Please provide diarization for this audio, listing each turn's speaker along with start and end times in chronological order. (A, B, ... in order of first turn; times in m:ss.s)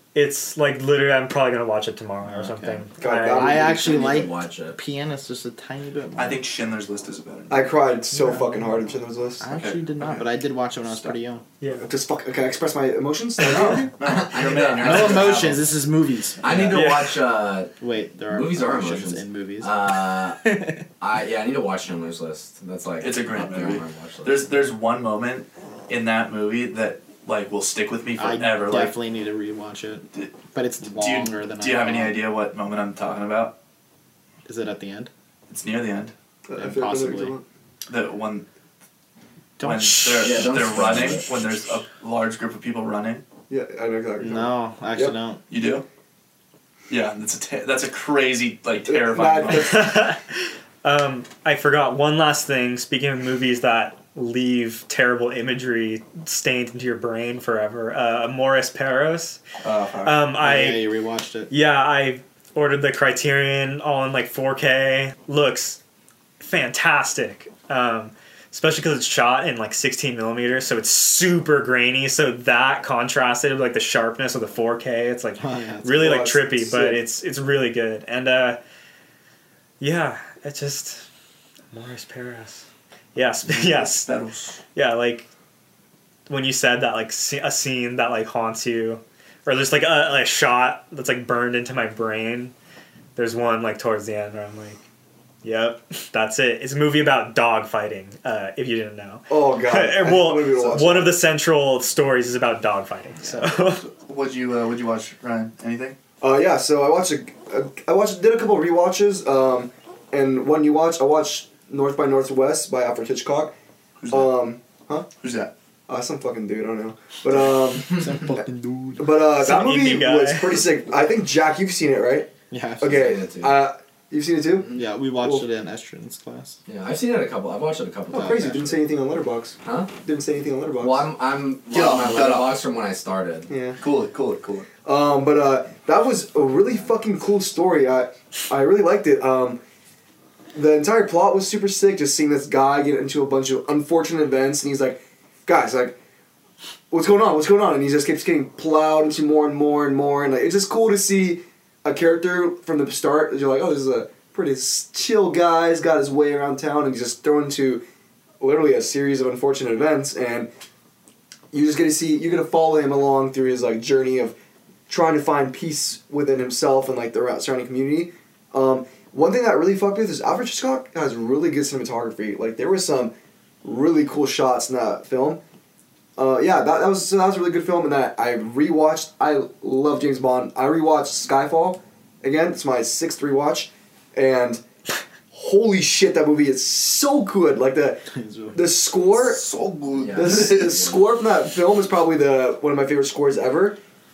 0:00.2-0:03.6 A
0:02.2-0:06.4 B
0:03.0-0:04.2 C
0:03.4-0:04.8 D
0:06.2-0:07.7 E
0:07.5-0:10.2 C
0:08.2-0:08.8 B
0:09.4-0:11.4 B
0:11.6-0:11.9 A
0:11.8-0:14.0 C
0:13.4-0:15.6 E
0:14.1-0:15.5 D
0:14.8-0:16.4 B
0:16.4-0:17.7 D
0:16.7-0:17.2 A
0:17.8-0:19.9 B
0:18.3-0:20.5 D
0:20.5-0:20.7 B
0:21.0-0:24.5 D
0:23.0-0:29.0 E
0:28.2-0:32.2 B
0:30.1-0:33.6 E
0:34.5-0:35.1 B
0:35.5-0:36.1 E
0:36.5-0:37.4 C
0:36.6-0:37.3 B
0:37.9-0:38.5 E
0:39.6-0:40.9 B
0:39.6-0:43.2 E
0:40.2-0:41.3 D
0:43.5-0:45.2 C
0:44.2-0:45.4 B
0:45.5-0:45.8 E
0:46.9-0:49.8 E
0:48.9-0:50.0 C
0:49.5-0:59.4 A
0:59.6-1:00.2 E
1:00.0-1:00.9 A
1:00.4-1:01.5 B
1:01.5-1:05.8 A
1:06.4-1:18.6 A
1:15.4-1:16.0 B
1:16.0-1:17.0 C
1:19.8-1:21.1 A
1:21.7-1:24.1 A
1:23.4-1:24.6 E
1:24.8-1:25.3 A
1:26.3-1:32.5 A
1:33.2-1:34.8 A
1:35.4-1:43.8 A
1:39.3-1:41.2 C
1:43.4-1:46.0 E
1:46.2-1:53.5 C
1:54.0-1:54.4 E
1:54.1-1:55.1 C
1:55.2-1:55.5 E
1:55.9-1:58.5 C
1:57.9-1:59.0 B
1:59.0-2:05.4 C
1:59.4-2:00.7 A
2:02.5-2:03.0 B
2:02.8-2:03.6 D
2:04.8-2:06.6 B
2:06.7-2:08.8 D
2:08.1-2:11.1 C
2:09.6-2:09.9 D
2:10.8-2:13.5 D
2:11.7-2:12.5 E
2:13.5-2:13.8 C
2:13.8-2:14.7 E
2:14.8-2:19.6 C
2:20.5-2:26.0 C
2:26.9-2:37.8 C
2:38.4-2:40.5 C
2:41.5-2:44.4 C
2:44.9-2:53.1 C
2:53.6-2:55.4 C
2:56.2-3:04.6 C
3:05.3-3:09.5 C
3:08.2-3:08.6 B
3:09.1-3:10.8 E
3:09.9-3:11.0 D
3:10.2-3:13.8 C